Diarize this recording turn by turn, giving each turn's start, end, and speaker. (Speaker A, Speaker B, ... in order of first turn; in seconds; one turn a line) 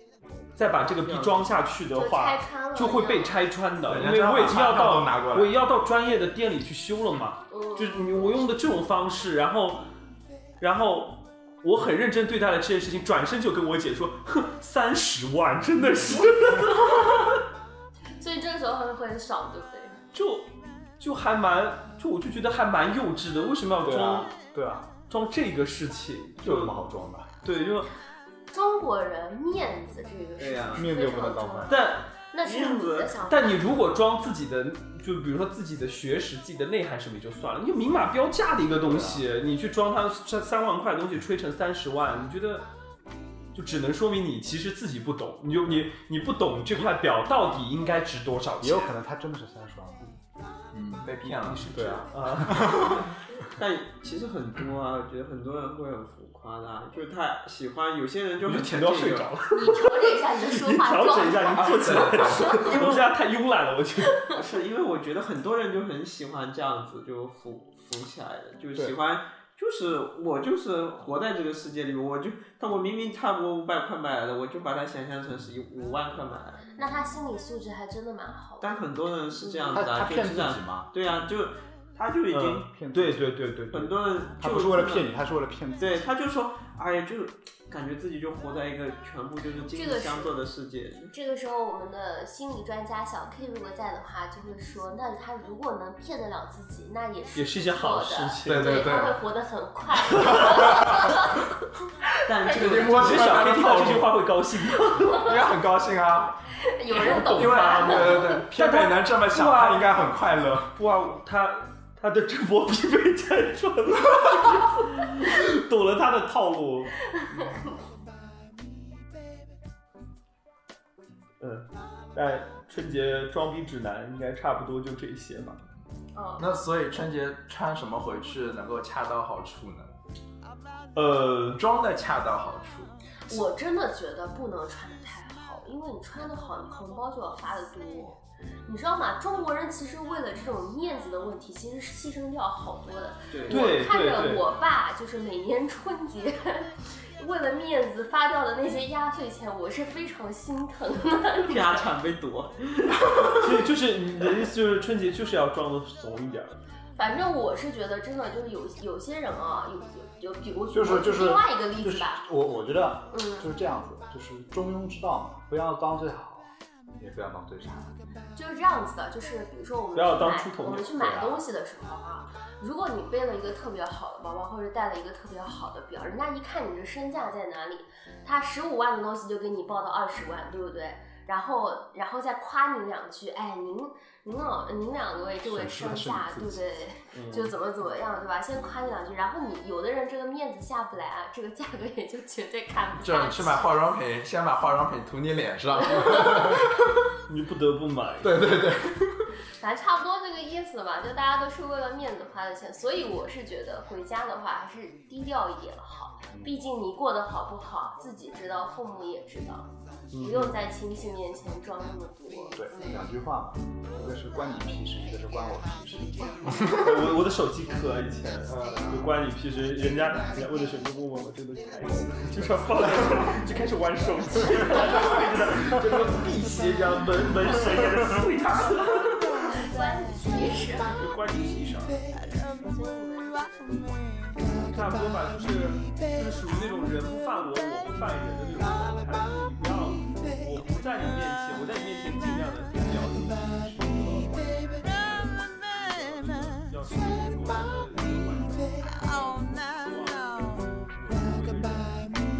Speaker A: 0.6-9.8
Speaker B: 0.6-1.5
Speaker C: 1.9-3.4
Speaker D: 3.9-5.7
Speaker C: 7.5-8.4
Speaker A: 10.6-17.4
Speaker C: 18.2-20.0
Speaker A: 20.1-24.3
Speaker E: 23.8-24.9
Speaker A: 25.1-26.9
Speaker E: 26.4-27.3
Speaker A: 27.4-27.9
Speaker C: 28.5-33.7
Speaker B: 30.4-30.9
Speaker E: 30.7-31.9
Speaker A: 31.7-32.1
Speaker B: 32.4-33.1
Speaker A: 33.2-42.7
Speaker E: 38.8-39.2
Speaker A: 43.5-49.0
Speaker E: 48.6-50.0
Speaker D: 50.7-52.9
Speaker A: 51.5-52.9
Speaker E: 51.5-52.7
Speaker B: 53.4-59.3
Speaker A: 58.4-64.2
Speaker C: 59.5-63.0
Speaker D: 61.6-62.6
Speaker B: 62.6-63.0
Speaker B: 64.3-76.7
Speaker C: 76.7-78.7
Speaker B: 78.6-82.7
Speaker C: 79.4-79.9
Speaker E: 79.7-80.9
Speaker A: 82.3-83.9
Speaker E: 82.6-83.3
Speaker B: 83.7-85.1
Speaker E: 84.4-86.1
Speaker B: 85.8-91.1
Speaker C: 89.7-90.3
Speaker C: 91.1-101.5
Speaker A: 97.3-98.9
Speaker D: 98.5-99.2
Speaker D: 100.3-101.2
Speaker B: 102.2-103.4
Speaker C: 102.5-102.8
Speaker D: 102.5-104.2
Speaker A: 102.9-105.3
Speaker D: 105.0-106.4
Speaker C: 106.6-108.5
Speaker D: 106.9-110.7
Speaker A: 107.0-109.9
Speaker A: 110.7-116.9
Speaker C: 117.3-117.6
Speaker A: 121.4-125.6
Speaker C: 126.1-126.5
Speaker D: 126.4-129.9
Speaker A: 130.9-131.6
Speaker D: 131.6-132.9
Speaker C: 133.3-151.8
Speaker B: 143.3-143.7
Speaker A: 143.5-144.4
Speaker B: 151.4-153.5
Speaker A: 153.3-156.6
Speaker C: 156.9-162.2
Speaker E: 160.7-167.9
Speaker C: 163.1-163.5
Speaker C: 168.3-193.7
Speaker A: 169.9-171.0
Speaker E: 170.9-171.4
Speaker E: 185.4-186.6
Speaker A: 187.1-187.5
Speaker D: 193.0-197.1
Speaker C: 195.8-196.6
Speaker A: 197.2-198.6
Speaker D: 198.2-199.3
Speaker C: 199.6-213.0
Speaker E: 206.3-206.6
Speaker A: 210.1-210.6
Speaker E: 212.5-216.7
Speaker A: 216.7-229.4
Speaker C: 229.5-231.0
Speaker A: 230.7-232.2
Speaker C: 232.6-233.9
Speaker A: 234.6-252.2